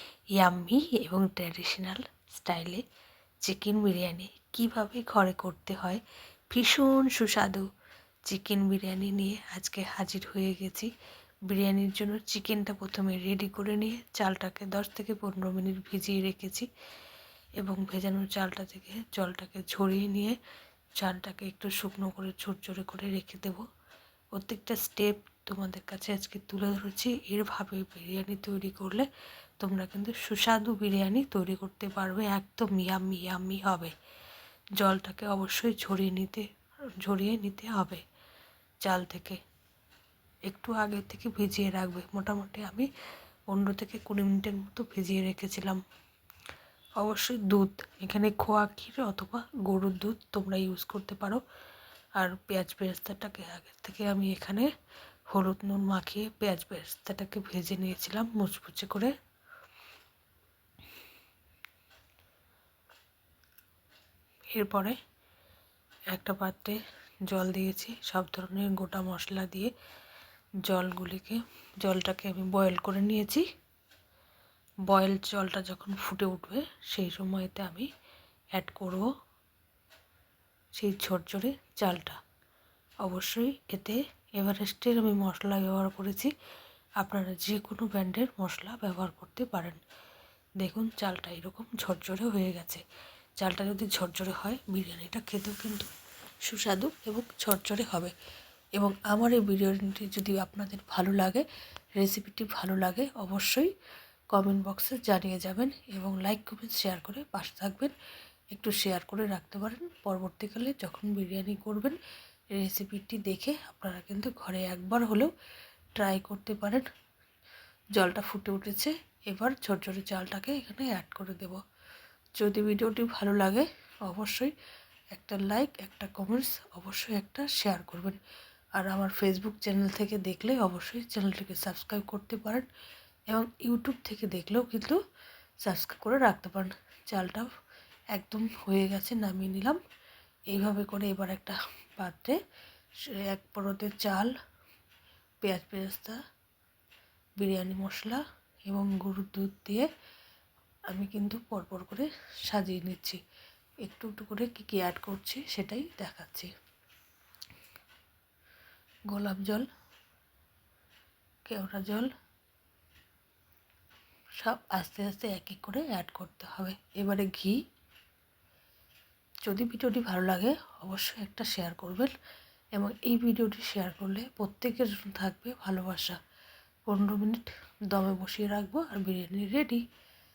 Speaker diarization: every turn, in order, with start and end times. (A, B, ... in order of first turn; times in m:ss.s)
0:00.4-0:02.8 A
0:03.5-0:07.7 A
0:08.3-0:10.9 A
0:11.5-0:16.7 A
0:17.6-0:20.4 A
0:21.0-0:23.6 A
0:24.4-0:29.1 A
0:29.6-0:33.9 A
0:34.8-0:36.5 A
0:37.0-0:38.0 A
0:38.8-0:39.4 A
0:40.5-0:42.9 A
0:43.5-0:45.8 A
0:47.0-0:51.4 A
0:52.2-0:54.7 A
0:55.3-0:59.1 A
1:04.5-1:05.0 A
1:06.1-1:09.7 A
1:10.6-1:13.4 A
1:14.9-1:17.9 A
1:18.6-1:19.1 A
1:20.8-1:22.2 A
1:23.0-1:26.3 A
1:27.0-1:29.8 A
1:30.6-1:32.8 A
1:33.4-1:35.9 A
1:36.4-1:38.1 A
1:38.8-1:41.4 A
1:42.0-1:43.7 A
1:44.3-1:47.9 A
1:48.5-1:52.0 A
1:52.5-1:55.3 A
1:56.0-1:56.8 A
1:58.0-2:01.6 A
2:02.4-2:04.5 A
2:05.1-2:08.2 A
2:08.8-2:12.6 A
2:13.3-2:15.0 A
2:15.6-2:17.5 A
2:18.2-2:19.8 A
2:20.5-2:22.4 A
2:23.3-2:24.3 A
2:25.4-2:26.2 A
2:27.4-2:29.9 A
2:30.9-2:33.2 A
2:33.9-2:36.5 A
2:39.1-2:39.6 A
2:41.5-2:42.1 A
2:44.4-2:47.6 A
2:49.4-2:52.1 A
2:52.8-2:56.2 A
2:56.9-2:59.8 A